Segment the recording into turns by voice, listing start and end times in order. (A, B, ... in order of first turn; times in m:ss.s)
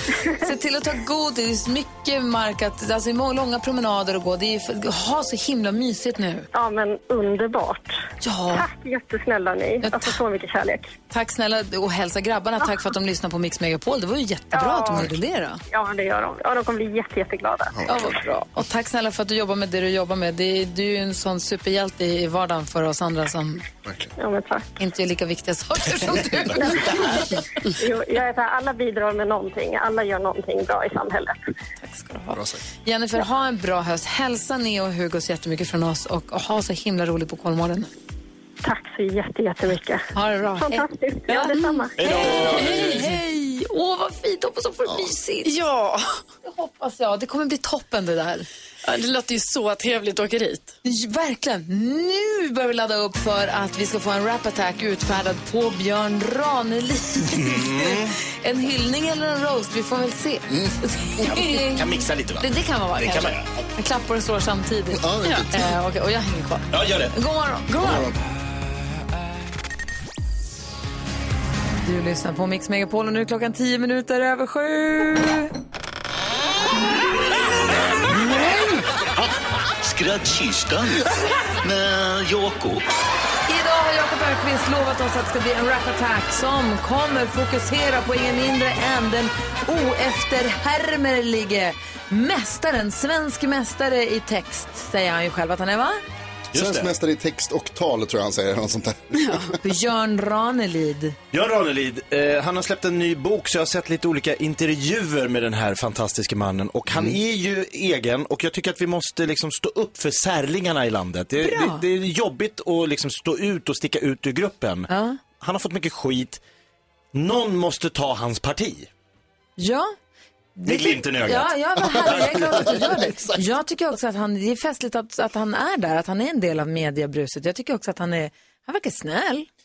0:00.3-0:06.5 A
0:06.5-0:08.0 B
0:08.2-0:08.7 A
0:08.5-0:10.9 B
0:09.8-0:10.2 A
0:11.1-0:15.6 A
0:14.5-0:15.1 B
0:15.7-0:17.8 B
0:17.7-0:18.2 C
0:17.9-0:23.6 A
0:23.8-0:24.1 C
0:24.2-0:24.7 B
0:24.8-0:27.4 A
0:26.7-0:31.4 B
0:31.8-0:37.9 A
0:32.3-0:32.6 C
0:38.6-0:40.1 B
0:40.1-0:45.5 A
0:40.6-0:42.0 B
0:42.0-0:43.1 D
0:45.4-0:46.2 E
0:46.4-0:48.5 A
0:48.8-0:50.7 E
0:50.8-1:08.1 A
0:57.3-0:58.2 D
1:00.5-1:00.8 C
1:01.3-1:02.5 D
1:03.0-1:03.4 D
1:04.9-1:05.7 C
1:06.7-1:07.1 D
1:07.8-1:08.2 C
1:11.8-1:15.5 A
1:18.1-1:18.7 C
1:19.8-1:21.1 F
1:21.6-1:22.8 F
1:23.5-1:36.0 A
1:36.5-1:36.9 D
1:36.5-1:39.6 C
1:39.6-1:41.2 A
1:41.3-1:54.9 D
1:46.9-1:47.2 C
1:51.4-1:51.8 A
1:54.9-1:55.2 A
1:55.4-1:56.4 D
1:57.1-1:58.9 D
1:59.6-1:59.9 A
2:00.6-2:09.5 A
2:00.7-2:01.5 D
2:01.9-2:03.4 C